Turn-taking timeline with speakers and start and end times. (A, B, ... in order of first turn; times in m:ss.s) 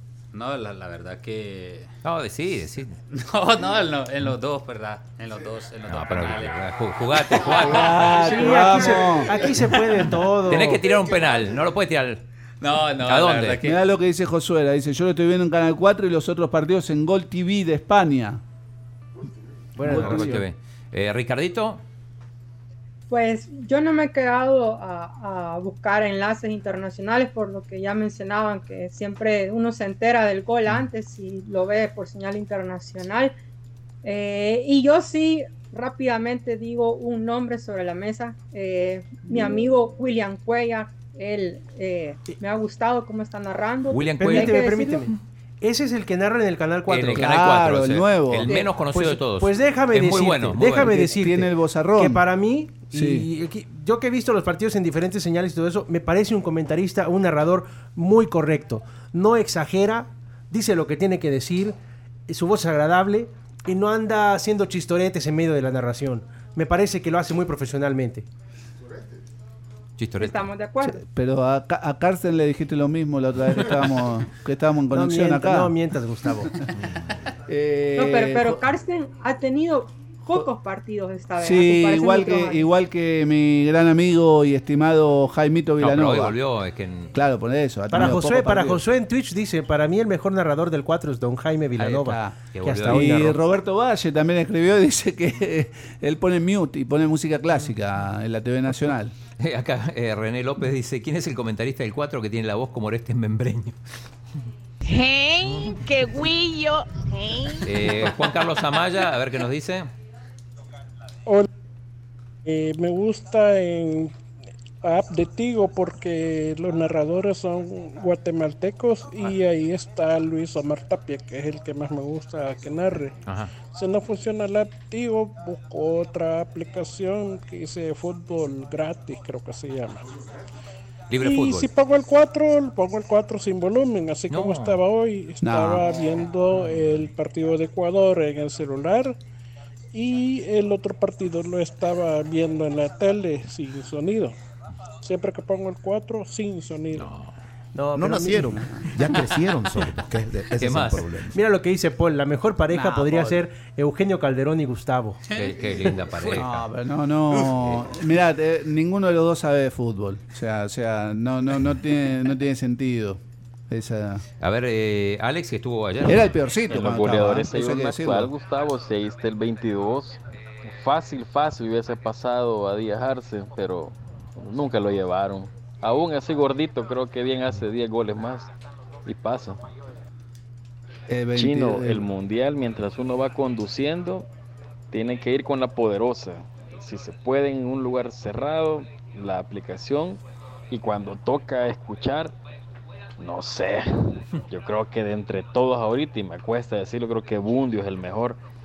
0:00.3-0:01.9 A
0:02.0-0:03.0 B
0:03.1-0:06.6 A
0:05.9-0:08.3 B
0:07.5-0:09.4 C
0:08.2-0:10.9 D
0:10.5-0:12.2 B
0:12.6-0:13.8 A
0:13.0-0:13.6 B
0:13.6-0:18.4 C
0:19.8-0:20.4 D
0:19.8-0:21.8 B
0:19.9-0:20.2 C
0:23.1-0:33.4 E
0:34.0-0:45.1 E
0:43.9-0:44.6 B
0:44.2-0:47.4 D
0:46.9-0:51.1 B
0:47.1-0:48.5 C
0:48.9-1:01.8 D
0:50.8-0:52.2 C
0:52.9-0:53.3 C
1:02.3-1:08.3 D
1:10.0-1:10.5 B
1:10.2-1:11.0 E
1:10.8-1:15.7 C
1:14.9-1:16.5 D
1:17.5-1:18.6 C
1:18.0-1:22.7 E
1:21.4-1:26.4 C
1:25.8-1:27.1 B
1:27.1-1:28.8 C
1:27.9-1:33.4 D
1:31.9-1:39.2 C
1:32.5-1:33.3 B
1:39.4-1:43.8 B
1:44.8-1:47.8 F
1:47.6-1:49.9 B
1:52.5-1:54.2 G
1:54.8-2:10.1 G
2:03.3-2:03.5 B
2:11.1-2:11.7 B
2:11.2-2:19.2 G
2:14.3-2:14.8 B
2:15.4-2:15.9 C
2:16.7-2:17.0 B
2:19.9-2:24.4 G
2:25.0-2:27.1 G
2:26.9-2:27.3 B
2:27.8-2:28.7 D
2:28.0-2:28.4 H
2:29.0-2:31.3 H
2:30.6-2:31.1 B
2:31.3-2:35.2 D
2:32.7-2:33.4 C
2:35.3-2:36.4 A
2:35.4-2:36.7 B
2:36.3-2:44.2 C
2:44.4-2:46.3 B
2:46.0-2:48.3 C
2:46.7-2:58.5 I
2:59.1-2:59.6 I
3:01.1-3:02.1 C
3:01.4-3:04.3 I
3:04.9-3:10.2 I
3:10.7-3:12.3 I
3:13.2-3:18.4 I